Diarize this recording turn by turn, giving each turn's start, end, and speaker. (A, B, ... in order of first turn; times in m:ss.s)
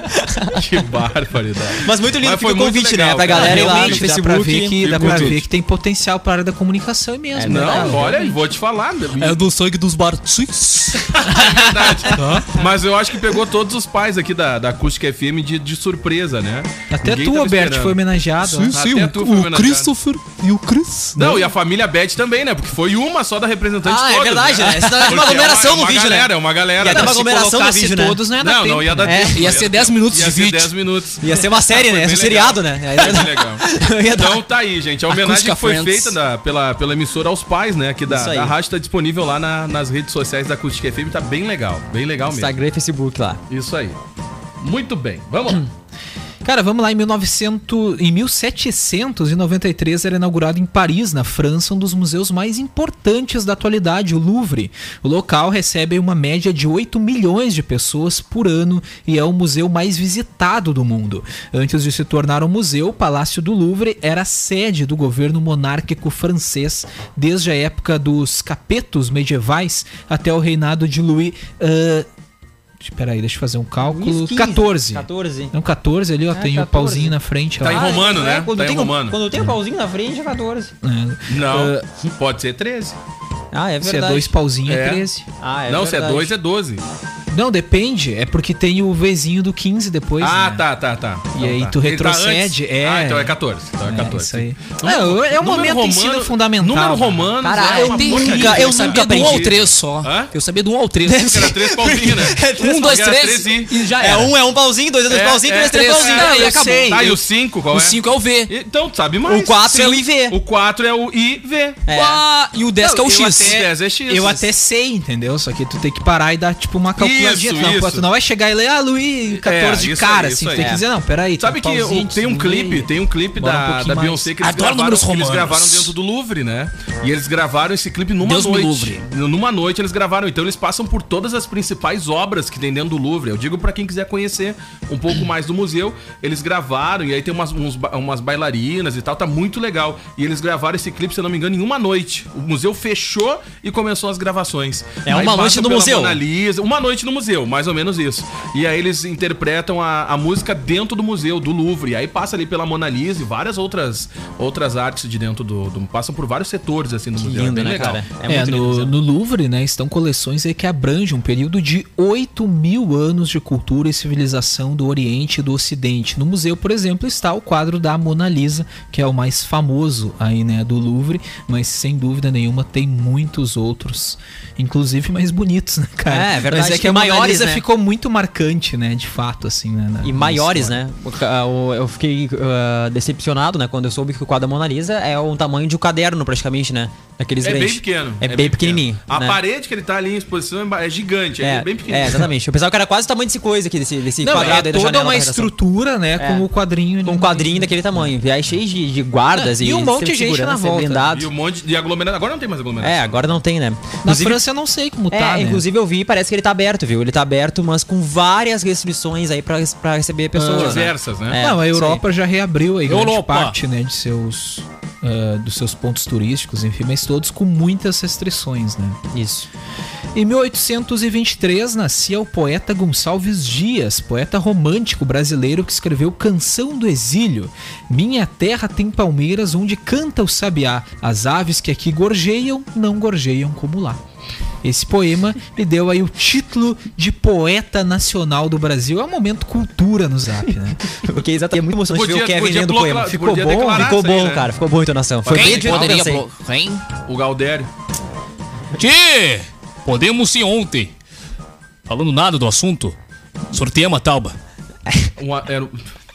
0:00.5-0:04.0 A
0:01.8-0:05.4 B
0:03.3-0:08.4 C
0:04.8-0:05.4 A
0:07.3-0:08.1 B
0:07.4-0:09.4 A
0:09.2-0:11.4 D
0:11.1-0:18.0 A
0:12.1-0:12.4 D
0:16.9-0:18.8 C
0:18.4-0:21.1 D
0:18.7-0:19.9 A
0:20.4-0:21.4 C
0:21.2-0:27.2 A
0:23.8-0:28.2 B
0:26.8-0:29.4 C
0:28.4-0:42.6 A
0:29.0-0:29.4 B
0:29.3-0:30.7 D
0:31.2-0:34.4 B
0:35.1-0:36.2 D
0:38.1-0:38.5 B
0:42.3-0:43.4 B
0:43.5-0:44.0 A
0:44.6-0:45.7 A
0:46.4-1:12.1 C
1:12.8-1:18.0 C
1:13.8-1:15.5 B
1:16.3-1:20.7 B
1:17.6-1:19.2 A
1:20.8-1:21.9 C
1:21.3-1:23.0 A
1:23.5-1:24.3 B
1:23.8-1:25.3 C
1:24.6-1:25.1 A
1:25.4-1:26.3 B
1:25.7-1:26.8 A
1:27.3-1:30.6 C
1:30.2-1:40.3 A
1:31.3-1:38.5 C
1:37.4-1:39.5 B
1:37.8-1:41.4 D
1:41.0-1:43.1 B
1:41.2-1:43.7 A
1:42.4-1:44.3 D
1:44.0-1:46.5 B
1:45.1-1:51.8 A
1:45.6-1:47.1 D
1:46.1-1:47.1 C
1:47.7-1:48.5 D
1:49.2-1:50.4 B
1:51.8-1:52.2 B
1:51.9-1:53.6 D
1:52.8-1:54.4 A
1:53.0-2:04.3 C
1:57.0-1:58.0 A
1:59.4-2:00.7 A
2:01.4-2:38.0 A
2:04.4-2:05.9 D
2:08.2-2:09.0 D
2:25.0-2:26.2 B
2:37.2-2:38.9 B
2:38.3-3:00.8 C
2:56.1-2:57.6 B
3:00.0-3:09.4 B
3:07.4-3:12.3 A
3:11.4-3:15.5 B
3:14.2-3:18.1 C
3:16.2-3:16.5 B
3:17.0-3:21.3 B
3:19.3-3:21.1 C
3:21.1-3:23.3 A
3:22.8-3:24.4 B
3:24.0-3:25.6 C
3:25.1-3:32.0 B
3:30.4-3:30.7 D
3:30.6-3:31.4 A
3:31.3-3:39.0 C
3:32.9-3:33.6 D
3:39.1-3:39.5 B
3:40.1-3:54.0 C
3:54.6-4:00.9 C
4:00.9-4:06.2 B
4:01.9-4:04.5 A
4:05.2-4:06.1 A
4:05.3-4:06.8 D
4:07.0-4:07.7 A
4:08.8-4:10.9 D
4:11.9-4:13.0 D
4:13.5-4:14.4 D
4:15.2-4:15.8 A